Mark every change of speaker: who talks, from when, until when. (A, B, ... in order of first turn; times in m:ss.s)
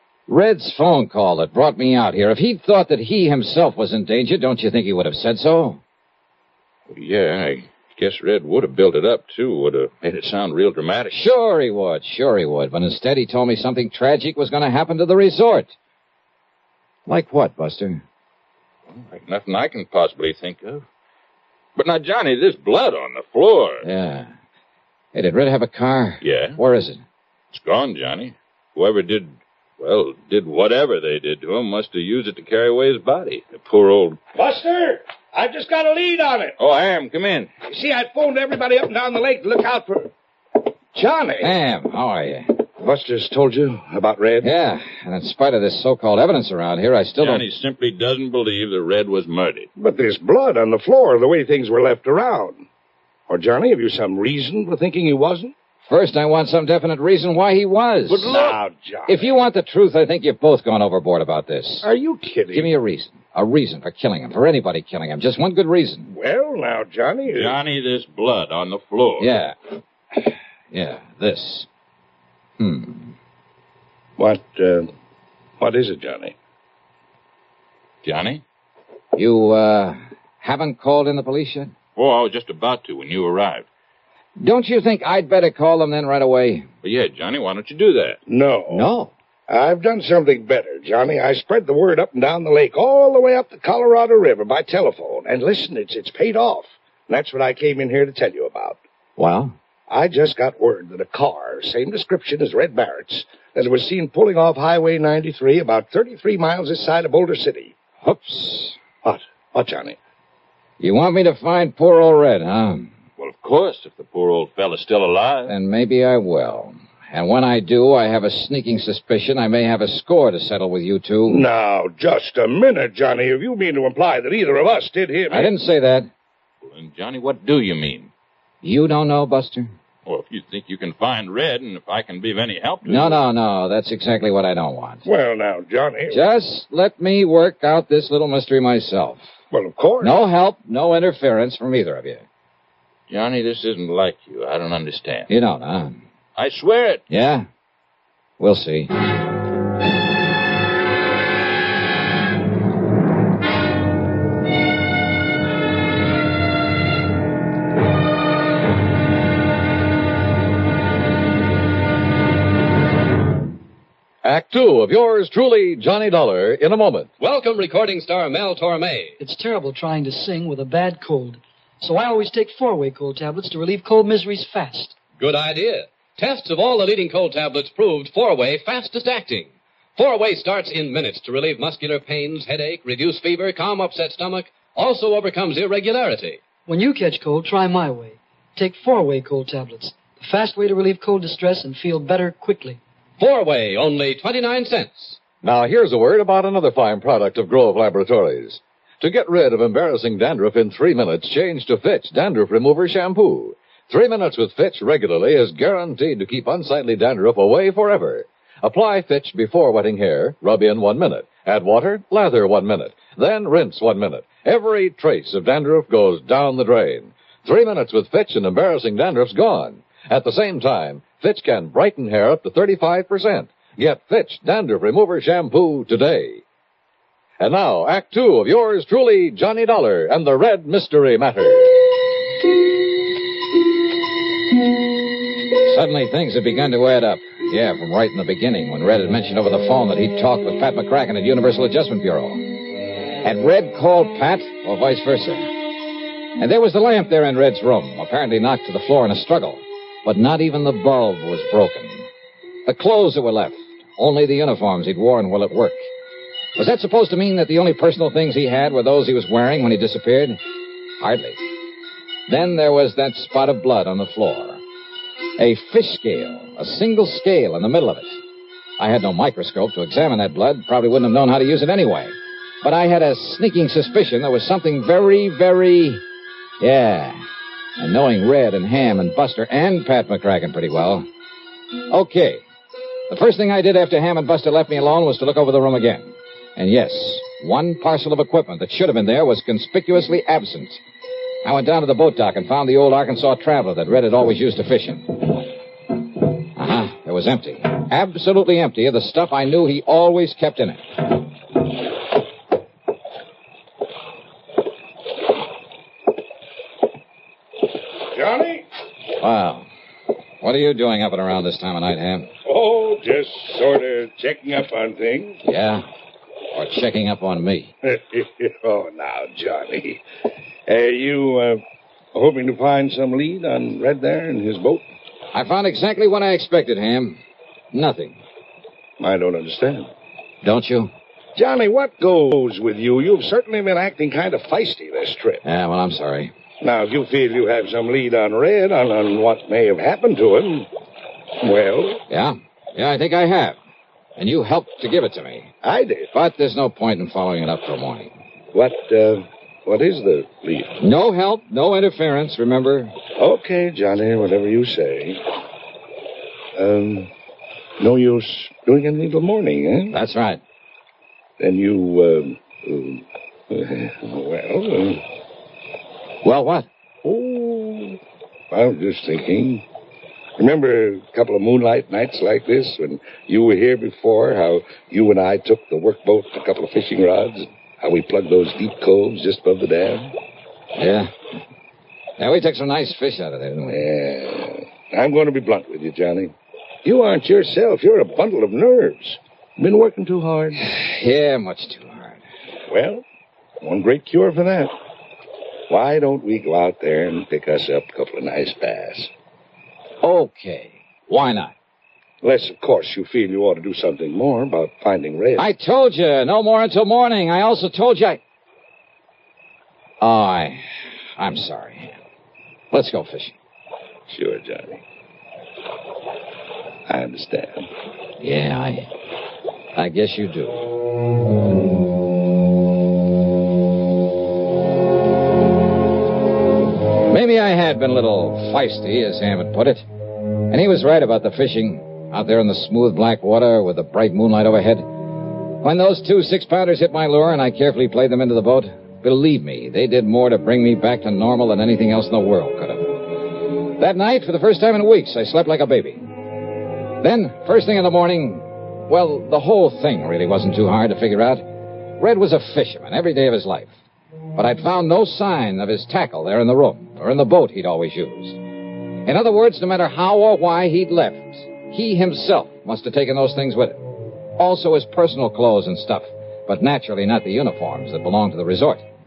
0:00.3-0:05.8 A
0:06.9-0:11.2 B
0:11.1-0:15.7 A
0:17.1-0:18.0 A
0:18.9-0:20.8 B
0:21.8-0:23.8 B
0:23.8-0:24.3 A
0:25.1-0:27.0 A
0:26.2-0:26.6 B
0:27.5-0:34.2 B
0:34.3-0:36.5 C
0:36.6-0:37.5 B
0:37.7-0:40.1 C
0:40.9-0:41.5 C
0:41.4-0:42.5 A
0:42.8-0:44.5 C
0:44.4-0:47.4 A
0:47.2-0:49.7 B
0:49.8-0:52.6 C
0:53.3-0:55.5 C
0:55.9-0:58.4 A
0:58.1-0:58.6 B
0:58.2-0:59.3 C
0:59.1-1:01.9 A
1:01.8-1:02.7 C
1:02.5-1:06.1 A
1:06.1-1:07.5 C
1:07.3-1:09.3 B
1:09.2-1:09.6 A
1:10.2-1:11.7 A
1:12.6-1:13.1 A
1:14.2-1:14.9 C
1:15.6-1:16.3 C
1:18.0-1:18.4 B
1:19.1-1:21.7 A
1:22.0-1:23.7 B
1:24.4-1:26.7 A
1:26.8-1:28.2 B
1:28.3-1:28.9 C
1:28.7-1:29.1 A
1:29.5-1:38.8 C
1:39.2-1:39.6 A
1:39.9-1:47.7 C
1:48.0-1:48.8 A
1:49.0-1:50.0 C
1:50.8-1:52.9 A
1:53.2-1:55.5 B
1:55.5-2:01.4 A
2:01.3-2:05.5 C
2:05.3-2:06.1 A
2:06.6-2:08.1 B
2:08.6-2:09.7 A
2:10.0-2:13.2 B
2:12.8-2:15.0 A
2:15.0-2:16.2 C
2:16.1-2:19.3 A
2:19.5-2:20.2 C
2:20.0-2:22.2 A
2:23.1-2:25.3 B
2:25.3-2:26.0 A
2:26.4-2:27.0 B
2:27.1-2:27.5 A
2:28.4-2:28.9 A
2:44.2-2:47.1 D
2:47.2-2:49.2 E
2:49.2-2:55.0 F
2:55.2-3:06.4 E
3:06.6-3:12.8 F
3:13.2-3:15.2 E
3:15.4-3:46.4 D
3:47.4-3:51.7 D
3:55.6-4:02.4 A
4:03.2-4:05.5 A
4:06.4-4:12.1 A
4:12.6-4:15.8 A
4:16.6-4:20.4 A
4:21.0-4:21.4 A
4:22.3-4:24.6 A
4:25.4-4:28.2 A
4:28.8-4:36.0 A
4:36.6-4:37.2 A
4:37.8-4:41.0 A
4:41.9-4:42.4 A
4:43.1-4:50.8 A
4:51.4-4:55.4 A
4:56.5-5:00.8 A
5:08.1-5:08.6 C
5:09.2-5:09.7 A
5:10.4-5:12.3 A
5:12.4-5:15.4 C
5:15.4-5:15.8 A
5:16.5-5:17.7 A
5:17.8-5:20.0 C
5:20.7-5:21.6 C
5:22.1-5:24.8 C
5:25.3-5:27.2 A
5:27.7-5:28.2 A
5:29.0-5:29.9 C
5:30.4-5:30.9 A
5:31.4-5:35.4 C
5:35.4-5:36.3 A
5:36.6-5:40.7 C
5:41.4-5:42.0 C
5:42.1-5:43.6 A
5:44.2-5:45.5 A
5:45.6-5:46.1 C
5:46.1-5:48.1 A
5:48.5-5:50.8 C
5:50.8-5:52.9 A
5:53.2-5:55.2 C
5:56.6-5:57.1 C
5:57.8-5:59.9 C
5:59.9-6:00.4 A
6:01.4-6:05.0 C
6:06.2-6:06.7 A
6:07.0-6:08.0 C
6:08.5-6:09.6 C
6:10.4-6:20.1 C
6:20.8-6:21.1 A
6:22.2-6:23.8 A
6:23.7-6:30.6 C
6:30.6-6:32.2 A
6:32.7-6:33.0 C
6:33.6-6:34.7 C
6:35.7-6:39.1 C
6:40.0-6:41.5 A
6:42.2-6:45.5 C
6:45.4-6:48.2 A
6:50.0-6:50.6 A
6:51.2-6:51.9 A
6:52.7-6:53.3 A
6:54.1-6:54.8 C
6:56.9-6:57.7 C
6:58.2-6:58.9 A
6:59.8-7:00.7 A
7:07.1-7:09.8 A
7:10.5-7:14.9 A
7:15.6-7:23.0 A
7:23.8-7:26.1 A
7:27.0-7:31.4 A
7:32.0-7:33.7 A
7:34.3-7:38.4 A
7:39.0-7:43.8 A
7:44.4-7:48.8 A